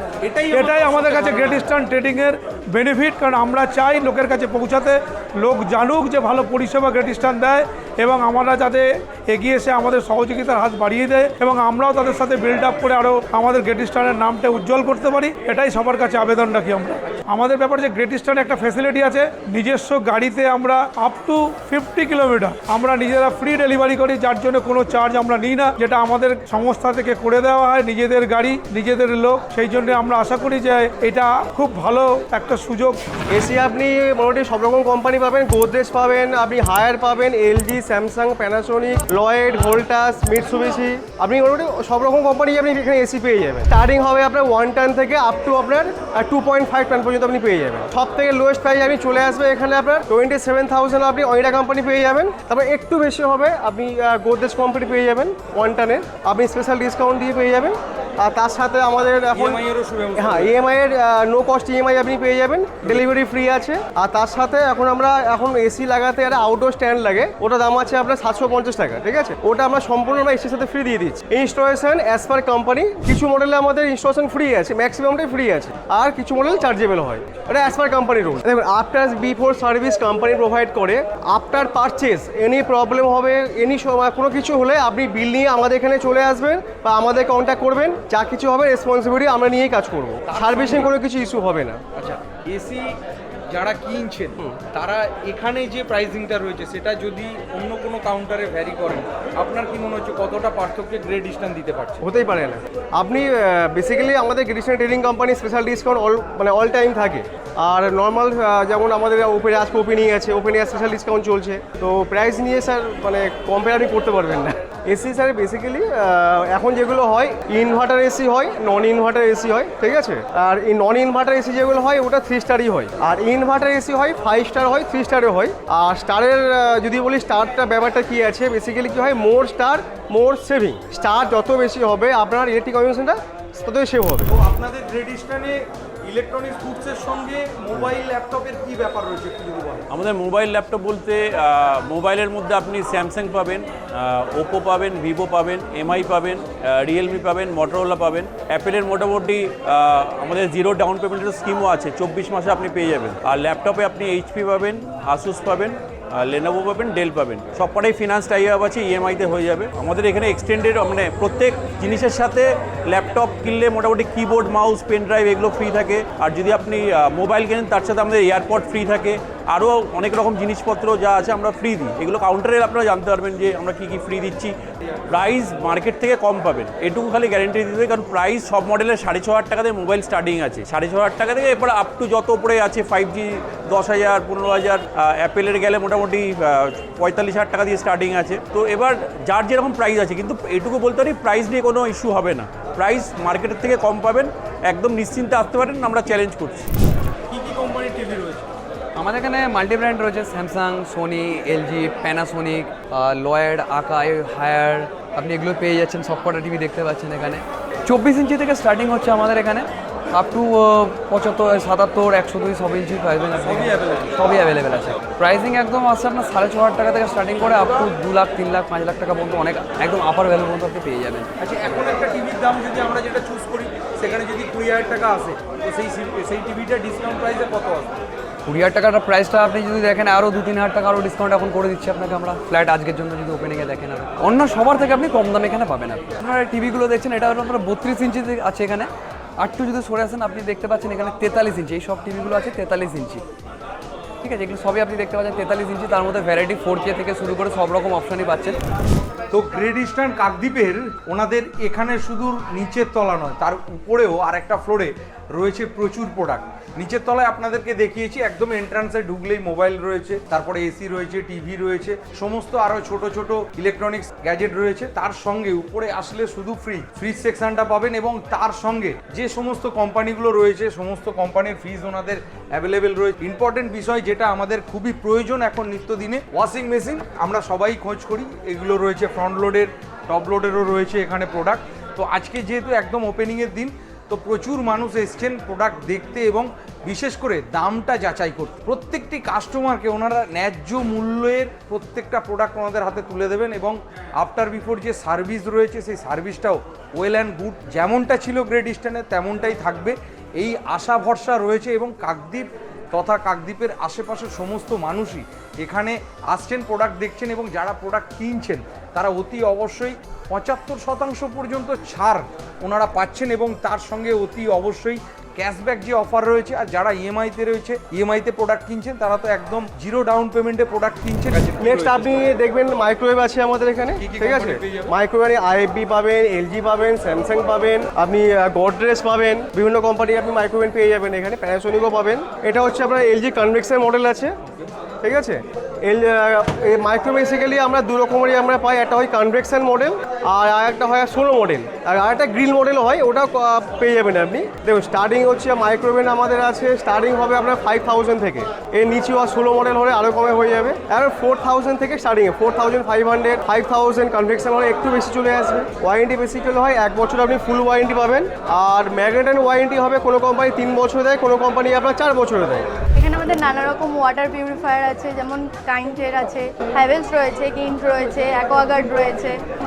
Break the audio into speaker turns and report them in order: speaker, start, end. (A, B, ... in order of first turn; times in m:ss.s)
0:00.2-0:01.7 A
0:00.5-0:33.0 B
0:33.3-0:59.6 C
0:59.3-1:00.6 A
1:00.2-1:31.8 C
1:30.3-1:30.9 A
1:31.9-1:33.0 A
1:33.5-1:42.0 A
1:42.0-2:14.3 C
2:14.3-2:19.8 A
2:19.9-2:54.5 D
2:55.1-3:16.7 D
3:17.3-3:18.4 A
3:19.0-3:41.3 E
3:33.4-3:34.2 A
3:41.4-3:47.9 A
3:48.4-4:03.2 E
4:04.2-4:08.6 E
4:09.3-5:22.2 A
5:21.6-5:34.3 C
5:24.0-5:24.9 A
5:35.0-6:02.7 C
6:03.0-6:09.3 F